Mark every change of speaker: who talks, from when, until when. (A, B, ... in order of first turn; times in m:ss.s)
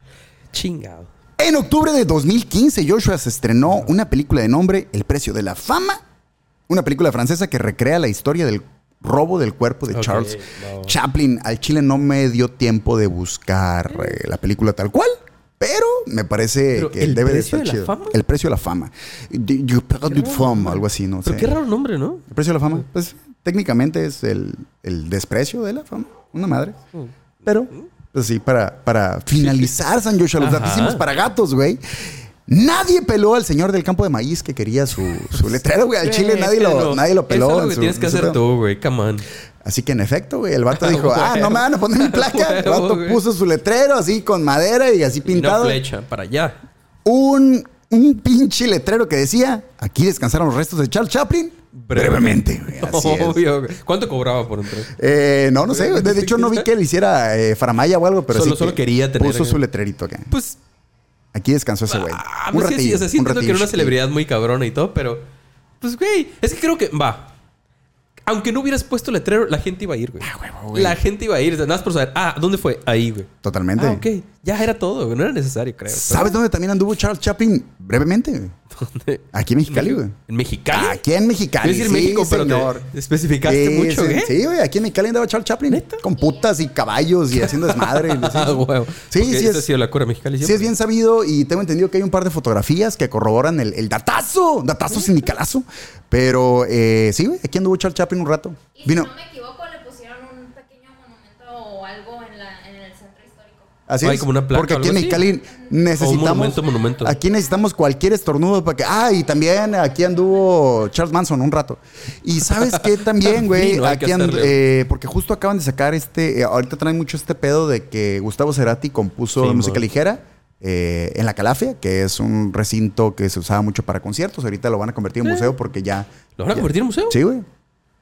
0:00.5-0:01.1 A
0:01.4-0:06.0 B
0:06.7-0:21.5 B
0:09.9-0:10.9 A
0:13.9-0:14.2 A
0:16.7-0:18.2 A
0:20.1-0:22.2 A
0:22.3-0:26.8 B
0:27.4-0:38.4 B
0:29.4-0:29.7 A
0:30.4-0:31.1 A
0:35.3-0:39.3 A
0:39.6-0:45.8 B
0:40.7-0:43.2 A
0:45.3-0:46.6 A
0:47.0-0:53.4 B
0:51.7-0:54.9 A
0:54.9-1:00.3 B
0:55.7-0:56.7 A
0:58.3-0:59.6 A
1:00.3-1:00.6 A
1:01.3-1:04.0 B
1:01.9-1:05.2 A
1:05.8-1:07.3 A
1:08.2-1:16.4 A
1:10.2-1:11.0 B
1:13.4-1:14.1 B
1:15.9-1:18.5 B
1:18.7-1:21.0 A
1:19.3-1:20.1 B
1:20.7-1:22.9 B
1:21.6-1:24.4 A
1:23.4-1:29.7 B
1:25.7-1:26.0 A
1:26.1-1:26.9 C
1:27.3-1:30.7 A
1:30.4-1:39.1 B
1:38.7-1:43.7 C
1:43.9-2:07.4 B
1:44.0-1:45.3 A
1:45.3-1:45.8 C
1:46.0-1:47.2 A
1:47.1-1:47.4 C
1:49.7-1:50.8 C
1:52.4-1:54.6 A
1:59.4-1:59.8 A
2:05.2-2:05.5 A
2:06.4-2:07.2 A